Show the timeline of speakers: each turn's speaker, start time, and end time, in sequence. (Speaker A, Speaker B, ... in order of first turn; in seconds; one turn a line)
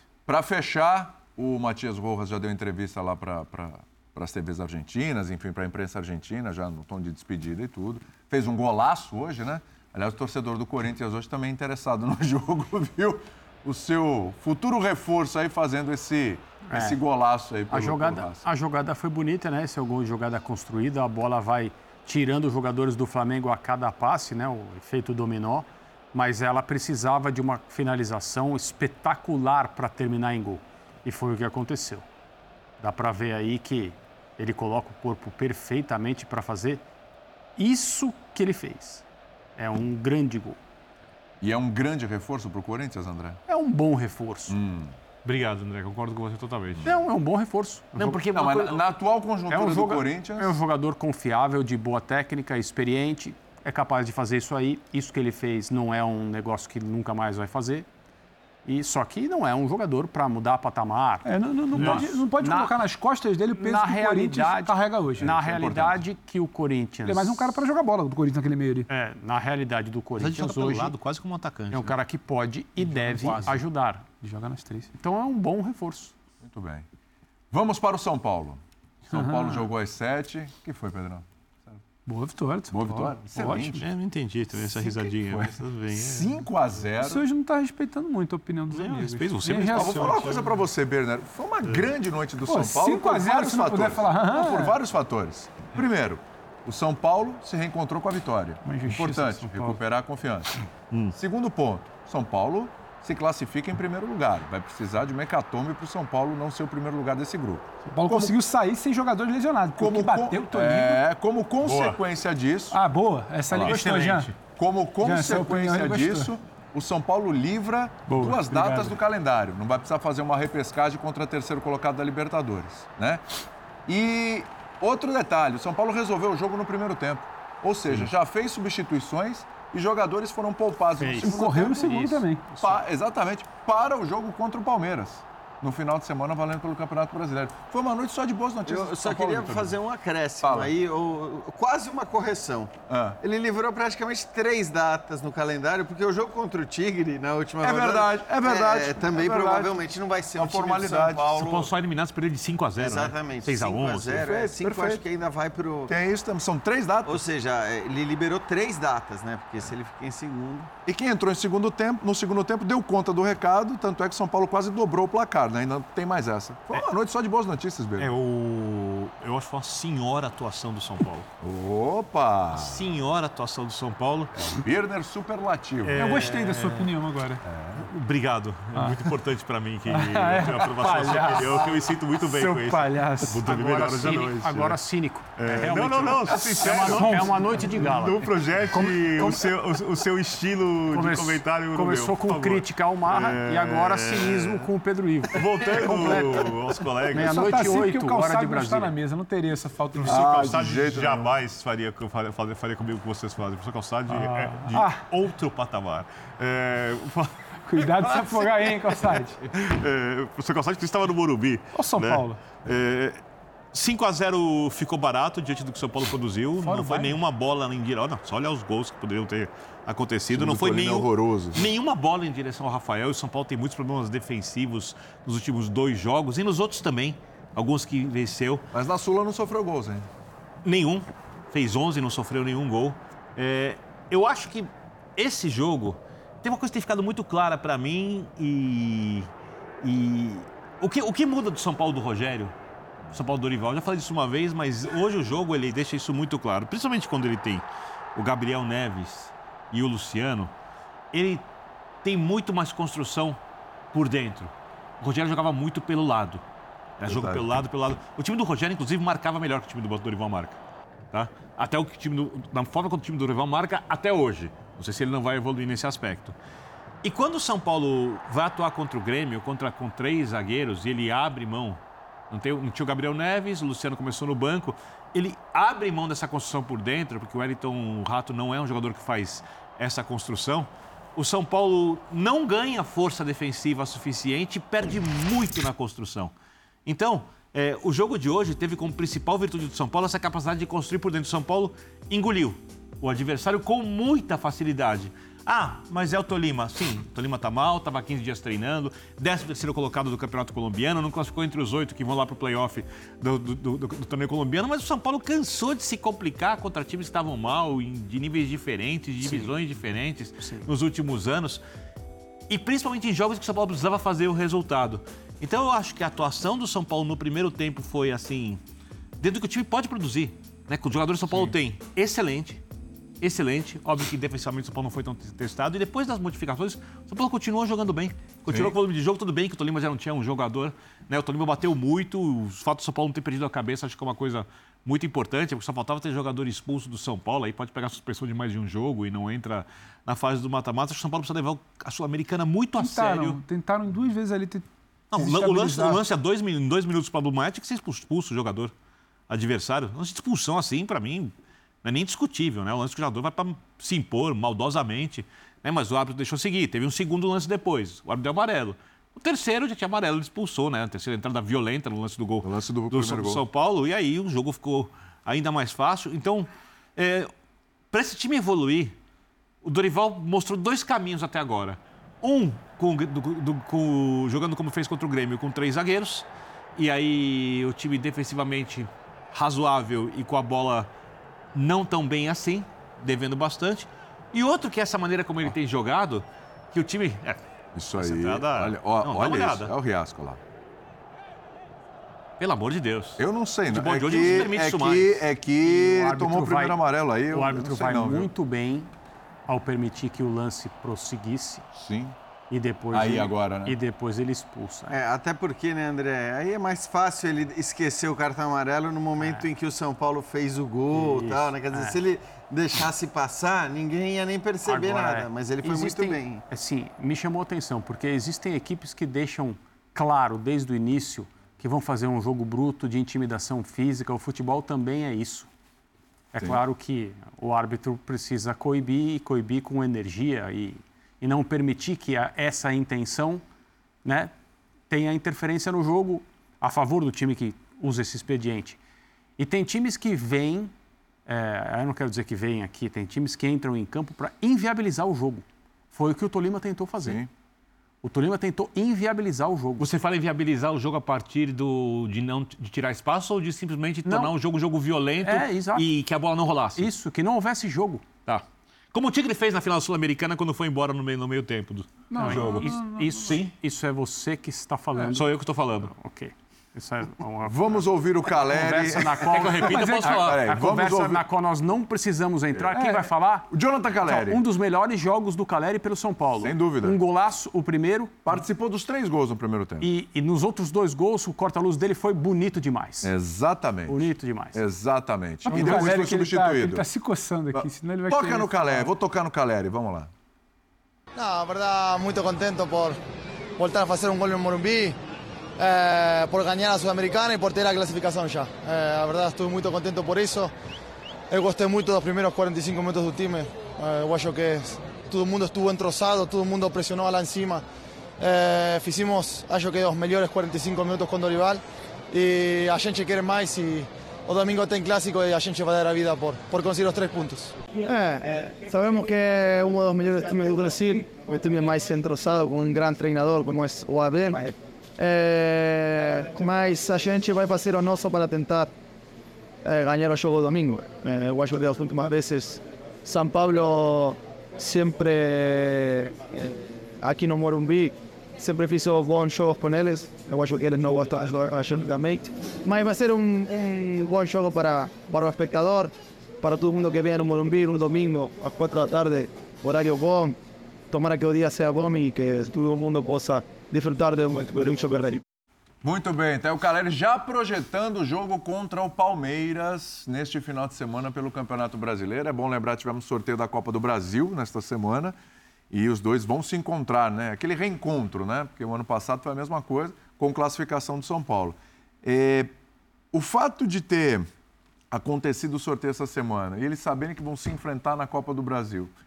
Speaker A: 0.3-18.4
Speaker B: 16.7-17.0
Speaker B: 17.7-32.0
Speaker B: 32.8-36.8
Speaker B: 37.6-39.0
Speaker B: 39.6-40.6
Speaker A: 41.4-43.4
Speaker B: 43.5-44.6
Speaker A: 44.5-45.0
Speaker C: 45.2-46.8
Speaker B: 46.9-48.3
Speaker C: 48.0-48.9
Speaker A: 48.0-50.6
Speaker B: 49.5-57.9
Speaker B: 58.6-62.8
Speaker D: 61.2-65.3
Speaker C: 61.8-62.0
Speaker B: 63.6-67.6
Speaker A: 65.2-66.0
Speaker D: 67.1-68.9
Speaker B: 68.9-70.9
Speaker C: 70.2-71.9
Speaker B: 71.7-74.1
Speaker D: 73.1-73.6
Speaker D: 74.2-74.9
Speaker B: 75.0-76.1
Speaker A: 76.4-76.9
Speaker A: 77.5-81.8
Speaker D: 79.1-79.7
Speaker D: 82.1-83.8
Speaker A: 82.7-83.8
Speaker C: 83.8-86.4
Speaker A: 84.6-87.2
Speaker D: 87.0-90.2
Speaker C: 88.7-90.5
Speaker A: 89.7-100.5
Speaker C: 91.6-91.9
Speaker D: 92.5-94.8
Speaker D: 98.7-99.8
Speaker A: 101.1-108.3
Speaker D: 107.9-111.0
Speaker A: 109.8-112.8
Speaker C: 111.6-112.0
Speaker D: 112.7-114.3
Speaker A: 113.5-113.8
Speaker C: 113.6-114.3
Speaker A: 114.6-123.2
Speaker D: 115.0-116.3
Speaker D: 118.1-118.9
Speaker A: 123.9-139.8
Speaker B: 131.0-131.3
Speaker D: 131.2-132.4
Speaker B: 132.5-132.8
Speaker E: 138.7-151.7
Speaker A: 140.4-140.7
Speaker A: 142.9-143.2
Speaker A: 147.6-149.8
Speaker A: 150.4-151.3
Speaker C: 151.3-154.3
Speaker E: 152.8-155.9
Speaker A: 154.1-155.0
Speaker A: 155.9-157.2
Speaker E: 157.1-160.7
Speaker A: 160.9-168.1
Speaker C: 168.0-171.3
Speaker A: 171.4-172.9
Speaker C: 172.5-174.3
Speaker A: 174.4-176.0
Speaker C: 175.8-176.9
Speaker D: 175.9-177.4
Speaker C: 177.7-184.8
Speaker D: 178.8-179.0
Speaker D: 179.9-183.4
Speaker B: 183.4-189.5
Speaker C: 185.4-194.7
Speaker D: 186.2-187.7
Speaker B: 190.9-196.5
Speaker C: 195.3-197.4
Speaker B: 197.1-198.9
Speaker D: 197.2-200.3
Speaker C: 200.0-208.5
Speaker A: 200.1-201.3
Speaker D: 204.1-205.0
Speaker D: 207.7-209.4
Speaker C: 209.4-213.2
Speaker D: 211.7-212.4
Speaker C: 213.7-228.7
Speaker D: 216.6-217.2
Speaker A: 220.3-221.7
Speaker A: 228.7-230.1
Speaker C: 230.6-239.3
Speaker C: 239.8-242.6
Speaker C: 243.1-250.5
Speaker C: 251.1-251.5
Speaker C: 252.0-253.4
Speaker C: 253.9-256.4
Speaker C: 257.0-260.6
Speaker A: 257.1-257.4
Speaker C: 261.1-266.4
Speaker C: 267.0-286.3
Speaker C: 286.9-311.6
Speaker B: 309.2-309.5
Speaker B: 310.4-310.7
Speaker C: 312.5-318.6
Speaker C: 319.2-322.6
Speaker C: 323.2-343.4
Speaker A: 328.5-328.8
Speaker D: 342.8-344.6
Speaker C: 345.1-348.7
Speaker D: 345.2-346.0
Speaker C: 349.3-351.3
Speaker C: 351.8-367.3
Speaker A: 362.4-363.4
Speaker C: 367.9-368.9
Speaker C: 369.6-380.9
Speaker C: 381.5-387.4
Speaker A: 387.8-390.4
Speaker C: 387.9-389.7
Speaker C: 392.4-395.2
Speaker A: 393.2-398.3
Speaker B: 395.6-396.8
Speaker B: 397.3-398.9
Speaker B: 399.5-401.7
Speaker A: 401.7-402.1
Speaker B: 402.5-405.0
Speaker A: 402.9-403.8
Speaker E: 404.9-416.4
Speaker B: 409.2-409.5
Speaker B: 410.9-412.0
Speaker B: 414.6-425.5
Speaker B: 426.3-433.4
Speaker B: 434.0-434.3
Speaker B: 434.9-438.8
Speaker B: 439.4-440.7
Speaker B: 441.3-447.2
Speaker A: 447.0-447.3
Speaker B: 448.0-449.9
Speaker C: 449.8-456.9
Speaker B: 454.1-454.3
Speaker B: 455.2-455.9
Speaker B: 456.8-458.4
Speaker C: 458.9-462.7
Speaker D: 462.1-463.4
Speaker B: 462.2-465.3
Speaker C: 465.1-465.9
Speaker B: 465.9-467.7
Speaker A: 467.5-471.2
Speaker B: 468.3-473.5
Speaker C: 469.3-470.1
Speaker D: 469.6-470.4
Speaker D: 472.7-473.1
Speaker A: 473.5-474.4
Speaker B: 474.1-478.4
Speaker A: 476.4-477.0
Speaker A: 478.2-479.9
Speaker B: 479.8-483.1
Speaker A: 483.0-484.0
Speaker B: 483.9-484.6
Speaker A: 484.5-486.9
Speaker D: 485.5-488.9
Speaker B: 485.5-485.9
Speaker A: 487.5-490.1
Speaker F: 491.2-493.0
Speaker F: 493.6-495.0
Speaker F: 495.6-500.5
Speaker F: 501.3-507.6
Speaker F: 508.2-528.7
Speaker F: 529.6-550.4
Speaker F: 550.9-555.2
Speaker A: 555.8-565.2
Speaker A: 565.7-572.5
Speaker A: 573.1-574.3
Speaker A: 574.9-578.9